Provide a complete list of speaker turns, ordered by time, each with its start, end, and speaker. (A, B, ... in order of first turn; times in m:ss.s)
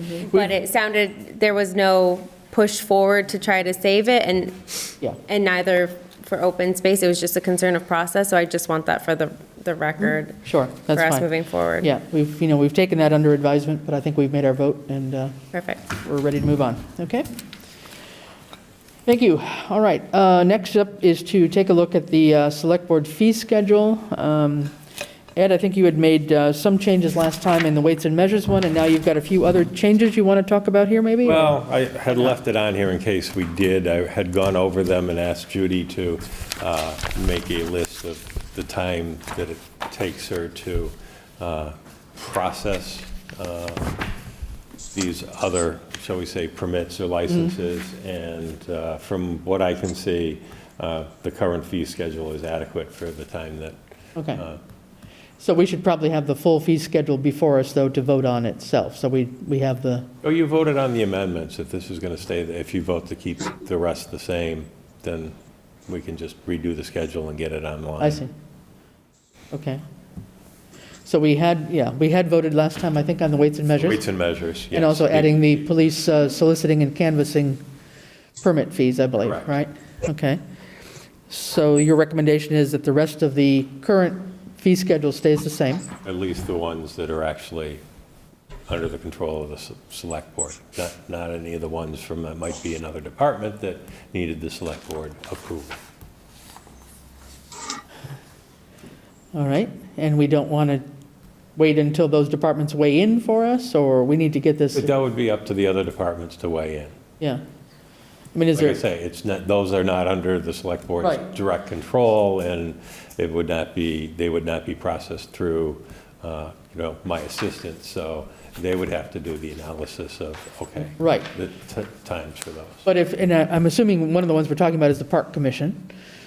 0:00.2-0:11.9 A
0:10.4-0:11.3 B
0:11.8-0:15.3 B
0:15.5-0:15.8 A
0:15.9-0:17.3 B
0:19.0-0:24.8 B
0:25.4-0:31.6 B
0:31.2-0:43.9 C
0:44.9-0:53.8 C
0:54.2-0:54.4 B
0:54.3-0:54.6 C
0:55.4-1:00.1 B
1:00.2-1:05.3 C
1:05.9-1:08.2 C
1:08.0-1:08.3 B
1:09.5-1:09.8 B
1:11.0-1:14.1 B
1:13.8-1:15.7 C
1:14.7-1:17.6 B
1:18.4-1:20.4 B
1:19.2-1:19.6 C
1:21.3-1:25.9 B
1:26.0-1:27.8 C
1:28.7-1:35.8 C
1:39.3-1:40.8 B
1:41.6-1:44.9 B
1:44.7-1:46.9 C
1:48.3-1:48.8 B
1:48.5-2:02.8 C
2:01.0-2:01.3 B
2:02.8-2:05.9 B